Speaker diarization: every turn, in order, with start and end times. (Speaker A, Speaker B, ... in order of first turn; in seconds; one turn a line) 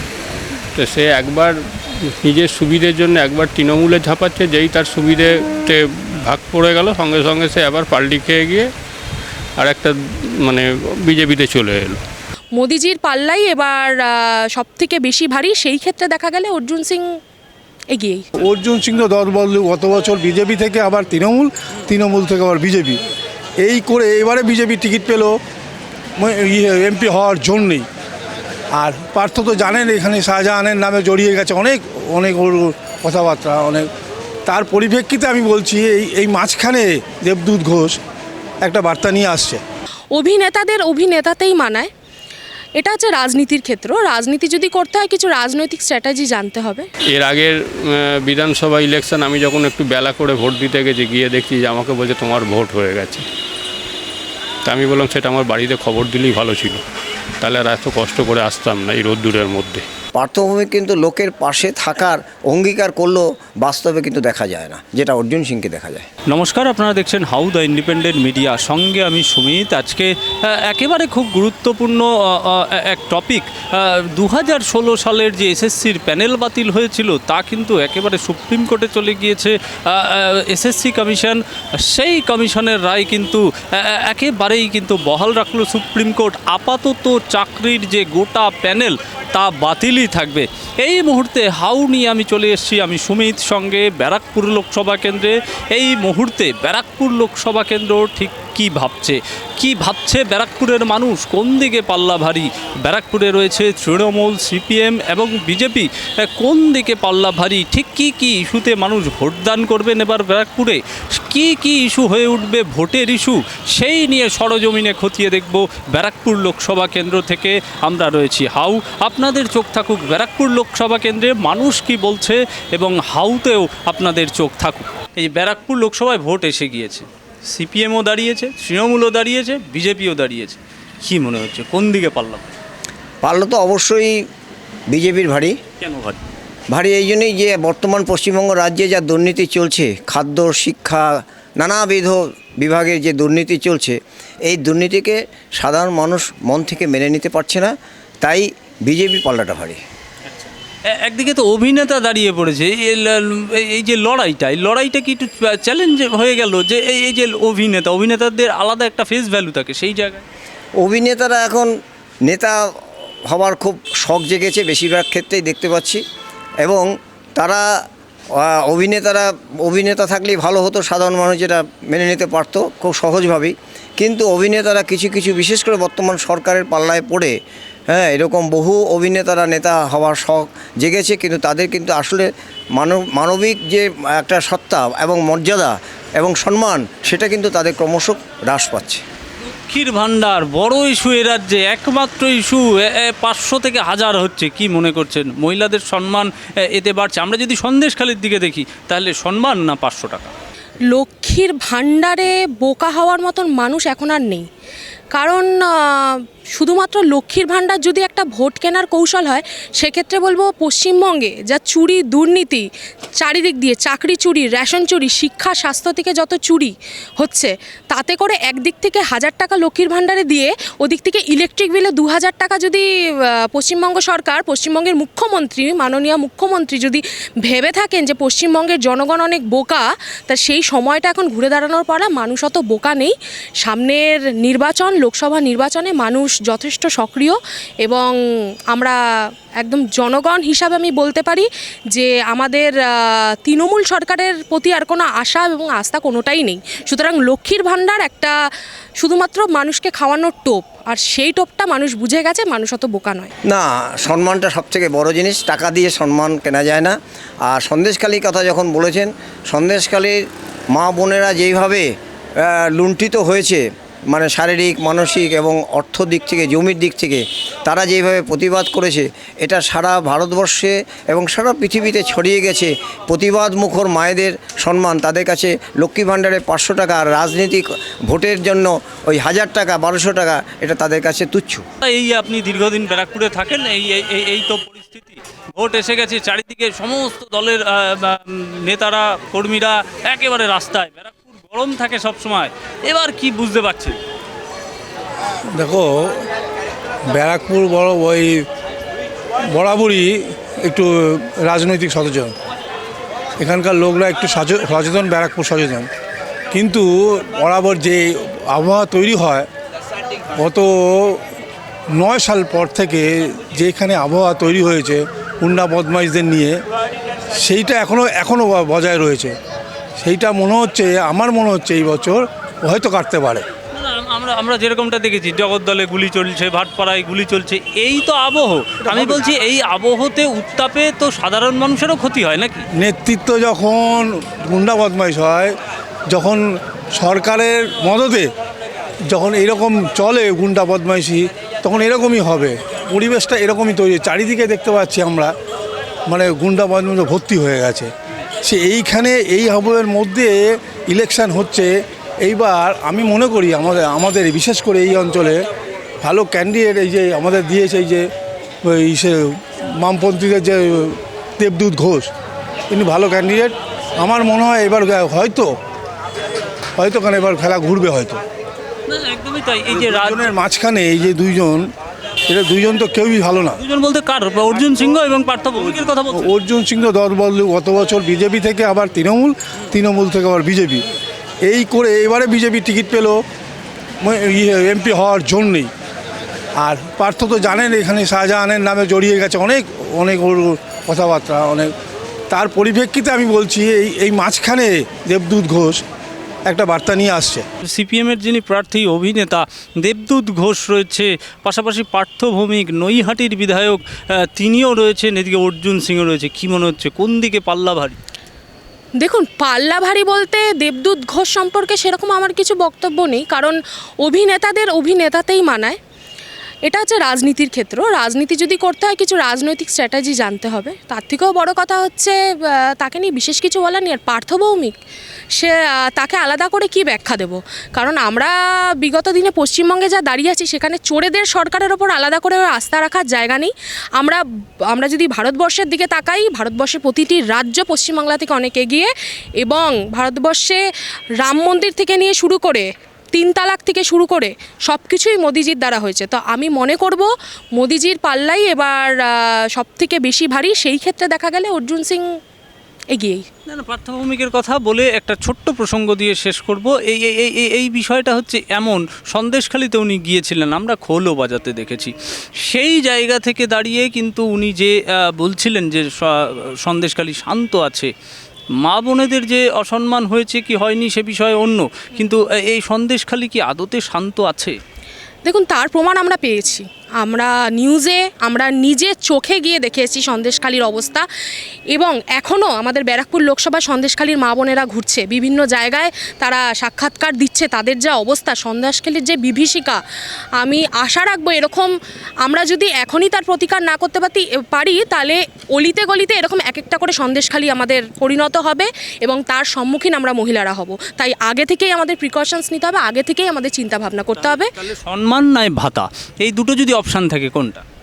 Speaker A: 0.8-1.6
Speaker A: 2.2-8.7
Speaker A: 9.6-12.0
Speaker B: 12.6-17.0
Speaker B: 17.9-18.3
Speaker C: 18.4-23.0
Speaker C: 23.6-25.4
Speaker C: 26.2-27.9
Speaker C: 28.8-33.9
Speaker C: 34.5-38.0
Speaker C: 38.6-39.6
Speaker B: 40.1-41.9
Speaker B: 42.8-46.9
Speaker A: 47.1-53.2
Speaker A: 54.6-56.8
Speaker A: 57.4-59.8
Speaker D: 60.1-66.0
Speaker E: 66.3-132.6
Speaker D: 133.2-134.1
Speaker D: 134.9-135.6
Speaker E: 135.8-136.2
Speaker D: 136.7-149.8
Speaker E: 150.3-160.2
Speaker D: 160.8-161.7
Speaker D: 162.3-162.6
Speaker D: 163.3-166.0
Speaker D: 166.6-167.6
Speaker D: 168.4-177.3
Speaker D: 177.9-189.0
Speaker E: 189.5-200.3
Speaker B: 200.9-204.4
Speaker B: 205.1-212.7
Speaker B: 213.2-238.1
Speaker B: 238.7-239.0
Speaker B: 239.6-248.3
Speaker B: 249.0-253.3
Speaker D: 253.5-260.1
Speaker D: 260.7-261.9
Speaker D: 262.4-281.6
Speaker E: 281.8-294.0
Speaker C: 295.5-296.2
Speaker C: 297.1-298.4
Speaker C: 299.5-302.3
Speaker C: 303.4-305.9
Speaker C: 306.5-309.5
Speaker C: 310.3-311.2
Speaker C: 311.9-316.6
Speaker C: 317.3-319.3
Speaker C: 320.0-323.4
Speaker E: 323.7-332.7
Speaker C: 328.8-329.2
Speaker C: 332.7-335.5
Speaker C: 336.1-338.3
Speaker C: 339.1-345.3
Speaker C: 346.1-347.9
Speaker C: 348.4-355.4
Speaker C: 356.0-358.1
Speaker C: 358.6-362.1
Speaker C: 362.7-365.5
Speaker C: 366.8-368.2
Speaker E: 368.9-370.3
Speaker C: 369.7-371.7
Speaker C: 372.3-373.6
Speaker E: 373.6-376.3
Speaker C: 376.1-380.9
Speaker C: 381.4-383.2
Speaker C: 384.0-385.7
Speaker C: 386.6-391.7
Speaker C: 392.3-395.8
Speaker C: 396.4-397.4
Speaker E: 397.6-408.0
Speaker B: 409.0-415.8
Speaker B: 416.7-424.7
Speaker B: 425.4-440.6
Speaker B: 441.2-452.0
Speaker B: 452.9-453.3
Speaker E: 453.5-467.9
Speaker E: 468.6-474.6
Speaker B: 475.2-481.1
Speaker B: 481.7-489.8
Speaker B: 490.4-491.7
Speaker B: 492.2-504.5
Speaker E: 504.2-507.6